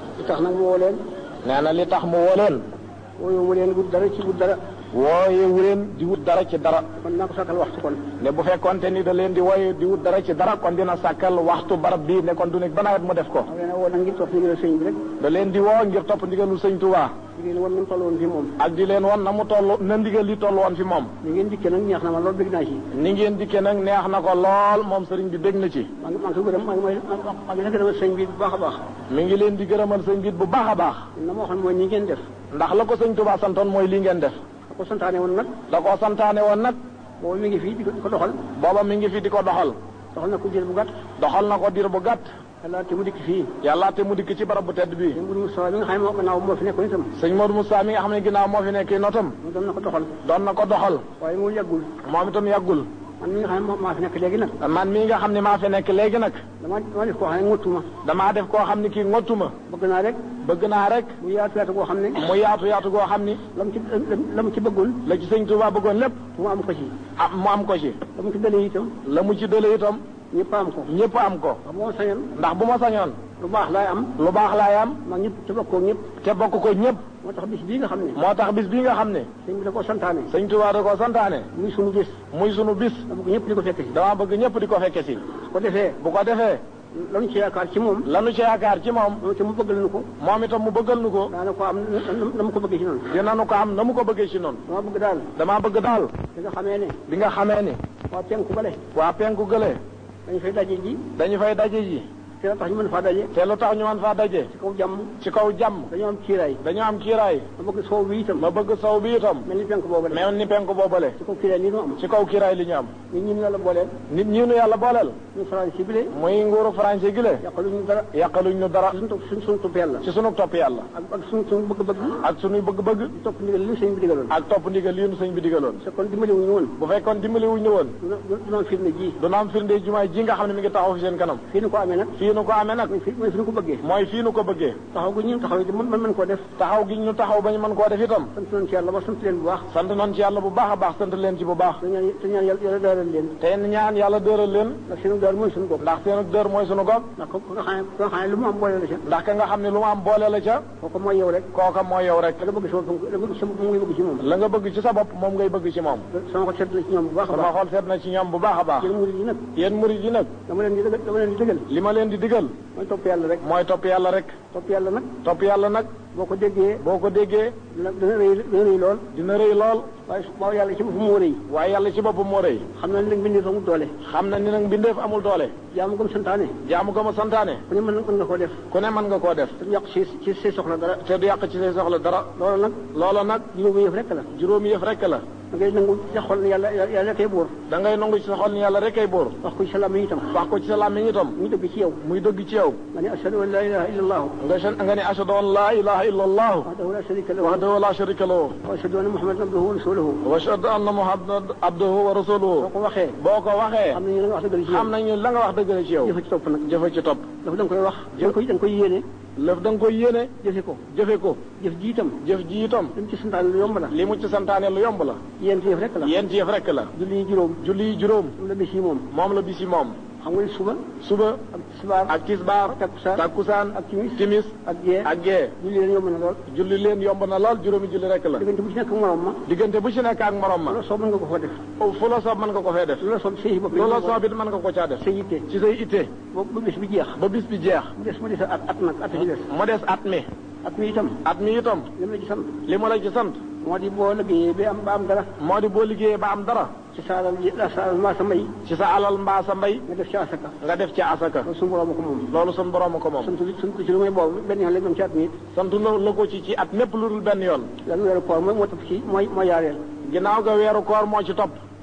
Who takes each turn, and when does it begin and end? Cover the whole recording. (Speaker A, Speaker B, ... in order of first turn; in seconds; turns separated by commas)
Speaker A: 0.2-1.0, Speaker B: 1.4-2.6, Speaker A: 3.2-4.6, Speaker B: 4.9-6.9, Speaker A: 7.0-8.1, Speaker B: 8.2-13.5, Speaker A: 13.5-15.1, Speaker B: 15.2-17.1, Speaker A: 17.3-18.6, Speaker B: 18.6-21.1, Speaker A: 21.2-22.8, Speaker B: 22.9-25.9, Speaker A: 26.0-28.8, Speaker B: 29.1-31.1, Speaker A: 31.1-32.2, Speaker B: 32.5-34.4, Speaker A: 34.7-35.6, Speaker B: 35.7-36.8, Speaker A: 37.2-38.4, Speaker B: 38.5-39.8, Speaker A: 40.1-41.0, Speaker B: 41.2-42.3, Speaker A: 42.6-43.5, Speaker B: 43.6-45.2, Speaker A: 45.1-47.1, Speaker B: 47.2-49.4, Speaker A: 49.4-50.1, Speaker B: 50.2-51.0, Speaker A: 51.2-51.9, Speaker B: 52.0-52.9, Speaker A: 53.2-54.5, Speaker B: 54.6-56.4, Speaker A: 56.6-57.9, Speaker B: 58.0-59.5, Speaker A: 59.7-60.3, Speaker B: 60.4-61.1, Speaker A: 61.2-62.2, Speaker B: 62.1-63.4, Speaker A: 63.5-65.0, Speaker B: 65.0-66.2, Speaker A: 66.3-67.0, Speaker B: 67.2-68.0, Speaker A: 68.1-68.9, Speaker B: 69.0-70.0, Speaker A: 70.3-70.9, Speaker B: 70.9-71.6, Speaker A: 71.6-72.3, Speaker B: 72.3-73.2, Speaker A: 73.4-74.2, Speaker B: 74.2-75.0, Speaker A: 75.0-76.1, Speaker B: 76.2-77.0, Speaker A: 77.2-78.2, Speaker B: 78.2-79.3, Speaker A: 79.4-80.3, Speaker B: 80.3-81.5, Speaker A: 81.5-82.2, Speaker B: 82.3-83.1, Speaker A: 83.1-84.0, Speaker B: 83.9-85.2, Speaker A: 85.5-86.0, Speaker B: 86.0-86.6, Speaker A: 86.9-88.0, Speaker B: 88.0-89.2, Speaker A: 89.2-90.1, Speaker B: 90.2-91.3, Speaker A: 91.3-93.1, Speaker B: 93.1-94.6, Speaker A: 94.7-95.3, Speaker B: 95.3-96.1, Speaker A: 96.3-97.0, Speaker B: 97.1-97.8, Speaker A: 98.1-98.8, Speaker B: 98.9-99.8, Speaker A: 100.2-101.0, Speaker B: 101.2-102.0, Speaker A: 102.4-103.3, Speaker B: 103.3-104.5, Speaker A: 104.5-105.1, Speaker B: 105.2-105.9, Speaker A: 105.9-106.6, Speaker B: 106.6-107.5, Speaker A: 107.6-108.5, Speaker B: 108.4-109.5, Speaker A: 109.4-110.2, Speaker B: 110.1-111.2, Speaker A: 111.2-112.0, Speaker B: 112.0-112.9, Speaker A: 113.1-114.0, Speaker B: 114.1-115.2, Speaker A: 115.3-116.1, Speaker B: 116.1-117.4, Speaker A: 117.4-118.2, Speaker B: 118.1-119.0, Speaker A: 118.9-120.0, Speaker B: 120.0-120.9, Speaker A: 120.9-122.2, Speaker B: 122.2-123.1, Speaker A: 123.1-124.3, Speaker B: 124.3-125.8, Speaker A: 125.8-126.7, Speaker B: 126.8-127.9, Speaker A: 128.0-129.2, Speaker B: 129.2-131.4, Speaker A: 131.5-132.1, Speaker B: 132.2-132.9, Speaker A: 132.9-133.8, Speaker B: 133.8-134.8, Speaker A: 134.9-136.5, Speaker B: 136.6-138.3, Speaker A: 138.3-139.7, Speaker B: 139.7-141.8, Speaker A: 141.8-143.3, Speaker B: 143.4-144.8, Speaker A: 144.9-145.8, Speaker B: 145.8-147.1, Speaker A: 147.2-149.0, Speaker B: 149.1-150.6, Speaker A: 150.8-151.5, Speaker B: 151.5-152.4, Speaker A: 152.4-154.3, Speaker B: 154.2-156.1, Speaker A: 156.1-157.5, Speaker B: 157.3-158.9, Speaker A: 158.8-159.5, Speaker B: 159.5-160.3, Speaker A: 160.5-161.7, Speaker B: 161.7-162.5, Speaker A: 162.7-163.4, Speaker B: 163.4-164.4, Speaker A: 164.5-165.1, Speaker B: 165.2-165.9, Speaker A: 166.1-166.8, Speaker B: 166.8-167.6, Speaker A: 167.7-169.0, Speaker B: 169.1-169.9, Speaker A: 170.1-171.4, Speaker B: 171.5-172.7, Speaker A: 172.7-173.9, Speaker B: 174.0-175.5, Speaker A: 175.7-176.6, Speaker B: 176.6-177.6, Speaker A: 177.7-178.6, Speaker B: 178.7-179.5, Speaker A: 179.6-181.0, Speaker B: 181.0-182.3, Speaker A: 182.3-182.8, Speaker B: 182.9-183.4, Speaker A: 183.5-184.3, Speaker B: 184.3-185.2, Speaker A: 185.5-187.5, Speaker B: 187.7-189.4, Speaker A: 189.4-190.4, Speaker B: 190.3-191.4, Speaker A: 191.3-192.0, Speaker B: 192.0-192.8, Speaker A: 192.9-194.3, Speaker B: 194.4-196.7, Speaker A: 196.6-197.6, Speaker B: 197.4-198.6, Speaker A: 198.6-200.2, Speaker B: 200.2-204.0, Speaker A: 202.6-203.2, Speaker A: 203.9-204.9, Speaker B: 204.7-206.1, Speaker A: 206.0-206.7, Speaker B: 206.7-207.2, Speaker A: 207.4-209.1, Speaker B: 209.4-210.3, Speaker A: 210.4-210.8, Speaker B: 210.9-211.4, Speaker A: 211.6-212.2, Speaker B: 212.2-212.9, Speaker A: 212.9-213.9, Speaker B: 213.9-215.2, Speaker A: 215.4-216.2, Speaker B: 216.0-216.9, Speaker A: 216.9-217.6, Speaker B: 217.6-218.3, Speaker A: 218.4-219.1, Speaker B: 219.1-219.9, Speaker A: 220.2-220.9, Speaker B: 221.0-221.4, Speaker A: 221.5-222.1, Speaker B: 222.1-225.5, Speaker A: 222.6-226.4, Speaker B: 226.5-228.4, Speaker A: 228.4-229.4, Speaker B: 229.4-230.8, Speaker A: 230.7-231.6, Speaker B: 231.8-233.0, Speaker A: 233.0-234.2, Speaker B: 233.7-236.1, Speaker A: 235.0-235.4, Speaker A: 236.3-237.2, Speaker B: 237.2-237.9, Speaker A: 237.9-239.5, Speaker B: 239.4-240.2, Speaker A: 240.6-241.2, Speaker B: 241.2-241.9, Speaker A: 241.9-242.6, Speaker B: 242.7-243.4, Speaker A: 243.6-245.3, Speaker B: 245.4-246.7, Speaker A: 246.9-248.5, Speaker B: 248.6-249.8, Speaker A: 249.8-250.5, Speaker B: 250.6-251.5, Speaker A: 251.4-252.3, Speaker B: 252.3-253.3, Speaker A: 253.2-255.4, Speaker B: 255.5-257.7, Speaker A: 257.8-259.8, Speaker B: 260.0-261.6